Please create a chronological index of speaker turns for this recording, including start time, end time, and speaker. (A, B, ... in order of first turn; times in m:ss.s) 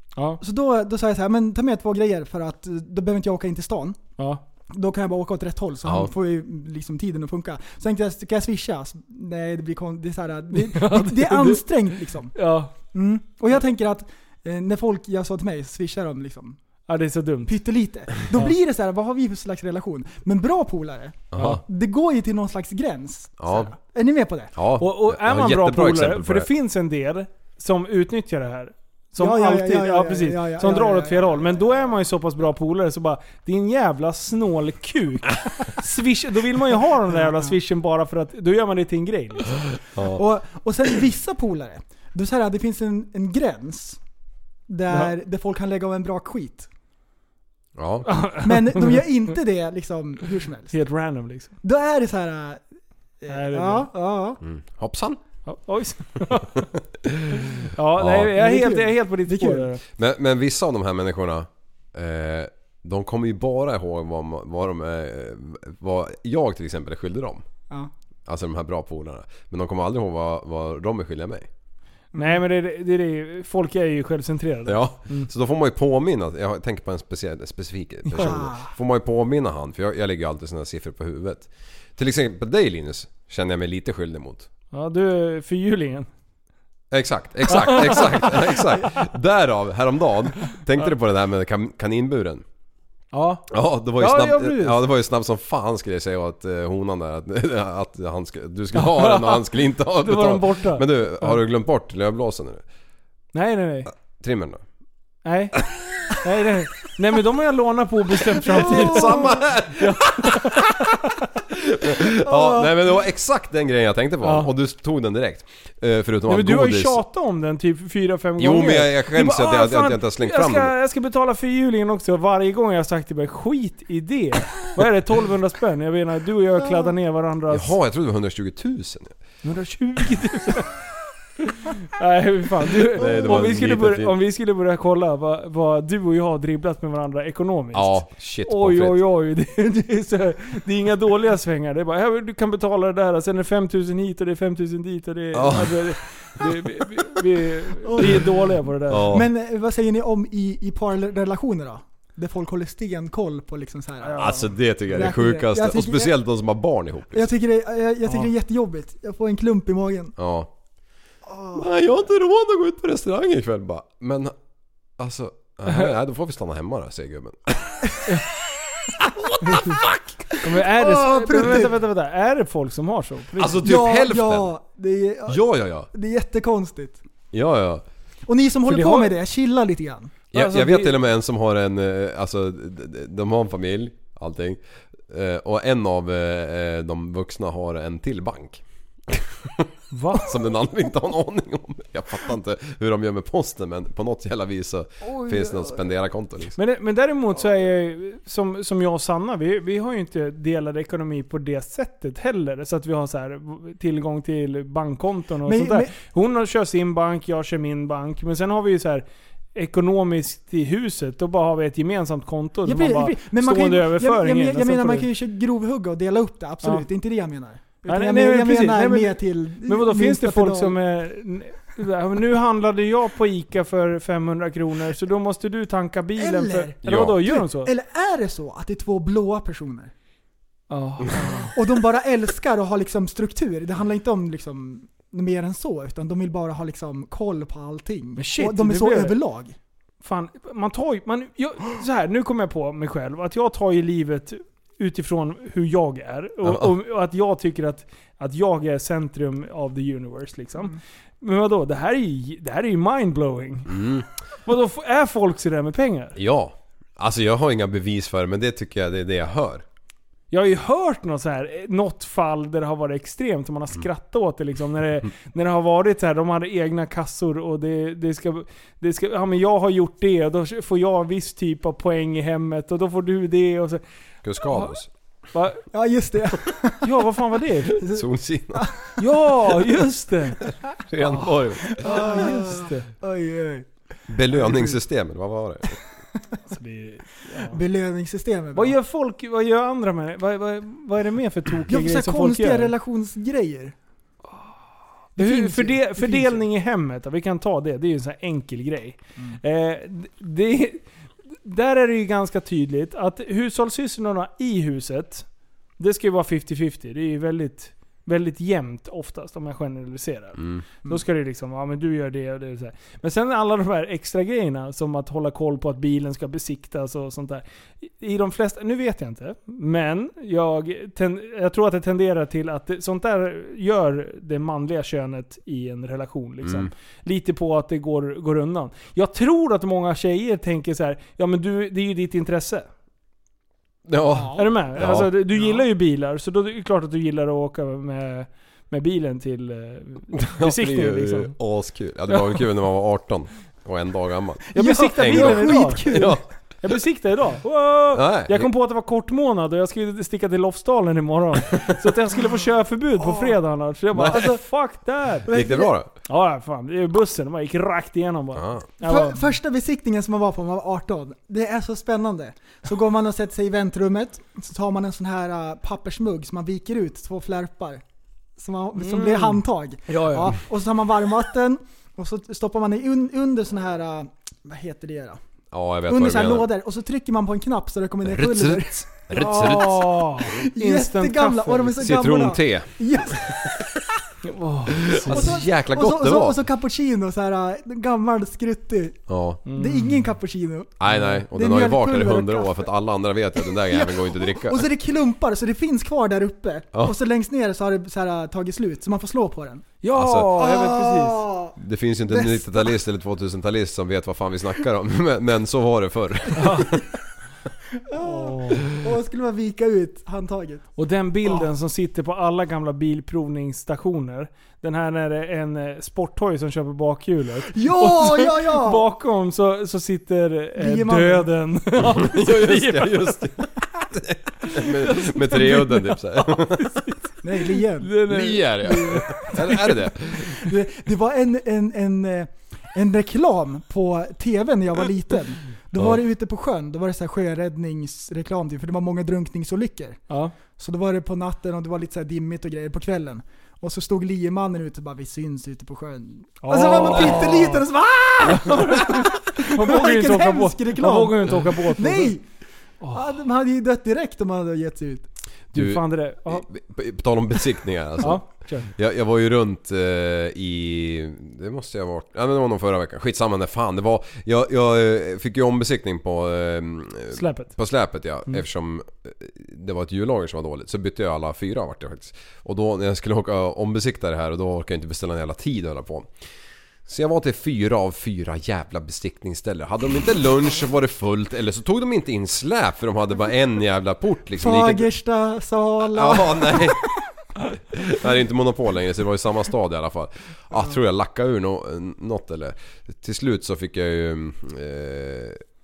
0:00.2-0:00.4 A
0:00.4-0:04.0 B
0:04.2-0:04.4 A
0:04.7-0:16.6 B
0:05.8-0:06.1 C
0:10.5-0:11.7 A
0:12.3-0:12.8 A
0:16.9-0:17.6 A
0:17.5-0:24.5 B
0:21.3-0:21.6 C
0:21.4-0:21.6 A
0:23.4-0:23.7 C
0:24.6-0:26.5 C
0:24.8-0:39.7 A
0:29.2-0:31.5 B
0:39.9-0:40.2 C
0:40.0-0:44.0 B
0:44.7-0:46.7 B
0:47.8-0:48.3 C
0:48.1-0:49.0 A
0:48.4-0:50.7 B
0:50.7-0:51.6 A
0:51.6-0:52.6 B
0:53.2-0:54.4 B
0:53.3-0:53.9 A
0:54.4-0:55.2 C
0:55.5-0:56.7 A
0:57.7-0:59.8 A
0:58.0-0:58.3 C
0:58.4-0:59.7 B
1:00.0-1:07.4 C
1:08.3-1:11.5 C
1:12.2-1:12.4 B
1:12.2-1:15.3 A
1:14.7-1:24.5 C
1:18.1-1:18.7 B
1:24.7-1:26.1 A
1:26.9-1:32.4 C
1:27.5-1:28.5 A
1:33.1-1:34.8 A
1:33.5-1:42.6 C
1:38.8-1:39.4 A
1:40.0-1:41.4 A
1:43.3-1:43.9 A
1:44.2-1:44.6 C
1:45.2-1:45.6 A
1:46.2-1:51.1 A
1:48.5-1:50.7 C
1:48.5-1:49.3 B
1:51.5-1:57.0 C
1:52.3-1:52.7 B
1:54.2-1:54.5 A
1:56.3-2:07.7 A
1:58.4-2:00.7 C
2:07.5-2:09.2 C
2:09.4-2:10.7 A
2:11.5-2:29.2 A
2:13.0-2:14.1 C
2:17.7-2:19.0 C
2:25.3-2:26.0 C
2:27.9-2:28.3 B
2:28.9-2:29.3 C
2:29.1-2:36.1 B
2:34.0-2:34.5 A
2:34.2-2:37.3 C
2:37.1-2:40.2 B
2:40.2-2:40.5 C
2:41.3-2:41.6 B
2:41.5-2:44.3 C
2:45.0-2:48.0 C
2:49.4-2:49.7 A
2:49.6-2:50.4 C
2:50.4-2:53.6 A
2:50.7-2:51.7 B
2:53.4-2:54.5 C
2:53.6-2:57.0 B
2:55.3-2:55.9 C
2:57.3-2:57.8 C
2:58.3-3:00.1 B
2:58.7-2:59.1 A
3:00.3-3:01.0 A
3:00.3-3:16.6 C
3:09.9-3:10.3 A
3:15.1-3:15.8 B
3:16.6-3:29.0 A
3:25.5-3:25.9 B
3:29.6-3:35.1 A
3:32.6-3:40.8 B
3:37.9-3:47.7 A
3:46.2-3:49.9 B
3:46.8-3:47.2 C
3:50.7-3:51.6 A
3:51.5-3:59.6 B
3:58.2-3:59.2 A
4:00.0-4:13.8 A
4:06.4-4:06.7 C
4:13.7-4:14.1 C
4:14.5-4:16.2 A
4:16.2-4:19.6 C
4:20.3-4:33.8 A
4:34.2-4:34.9 C
4:34.5-4:34.7 A
4:35.3-4:35.7 A
4:35.7-4:37.0 B
4:36.8-4:37.8 A
4:37.9-4:38.7 C
4:38.6-4:38.9 B
4:39.0-4:40.4 A
4:40.8-4:42.2 C
4:41.0-4:42.9 A
4:41.8-4:43.7 B
4:44.1-4:45.8 C
4:44.3-4:44.8 B
4:46.5-4:47.6 A
4:47.5-4:48.8 B
4:48.6-4:52.7 A
4:51.7-4:53.8 B
4:55.2-5:00.8 A
4:55.2-4:56.4 B
5:01.4-5:05.3 A
5:05.8-5:32.7 A
5:10.4-5:10.6 C
5:26.4-5:26.7 C
5:33.9-5:35.1 C
5:34.1-5:34.5 B
5:34.3-5:41.3 A
5:35.4-5:35.6 B
5:40.2-5:46.2 C
5:44.5-5:46.2 B
5:44.6-5:46.1 A
5:46.6-5:55.3 A
5:47.9-5:48.5 C
5:53.0-5:53.3 B
5:53.9-5:54.4 C
5:55.3-5:55.7 B
5:55.3-5:55.9 C
5:56.1-5:59.2 A
5:58.4-5:58.7 C
5:58.8-6:07.8 B
6:08.4-6:15.2 B
6:08.8-6:10.4 A
6:15.5-6:16.5 C
6:15.9-6:18.8 B
6:18.0-6:20.2 C
6:19.2-6:21.8 A
6:20.3-6:23.4 B
6:21.8-6:23.5 C
6:24.2-6:25.3 A
6:24.7-6:26.4 C
6:25.1-6:32.7 B
6:29.1-6:29.4 C
6:29.4-6:30.0 A
6:30.8-6:34.7 C
6:30.9-6:31.2 A
6:33.6-6:39.7 B
6:39.8-6:41.2 A
6:39.9-6:40.4 C
6:40.4-6:41.6 B
6:41.6-6:46.7 C
6:42.1-6:42.7 B
6:46.4-6:46.7 A
6:47.9-6:50.7 B
6:48.0-6:48.6 A
6:50.8-7:03.2 A
6:57.5-6:58.8 B
7:00.6-7:01.3 B
7:01.8-7:06.9 C
7:04.4-7:07.1 A
7:07.2-7:32.2 B
7:07.8-7:09.3 A
7:08.1-7:10.5 C
7:26.4-7:27.6 A
7:28.3-7:32.1 A
7:32.8-7:33.1 A
7:32.9-7:35.1 B
7:35.5-7:36.4 A
7:35.5-7:56.1 C
7:38.0-7:38.7 A
7:47.1-7:47.5 A
7:56.9-8:04.9 C
8:04.4-8:07.0 B
8:05.8-8:06.9 C
8:07.7-8:15.4 C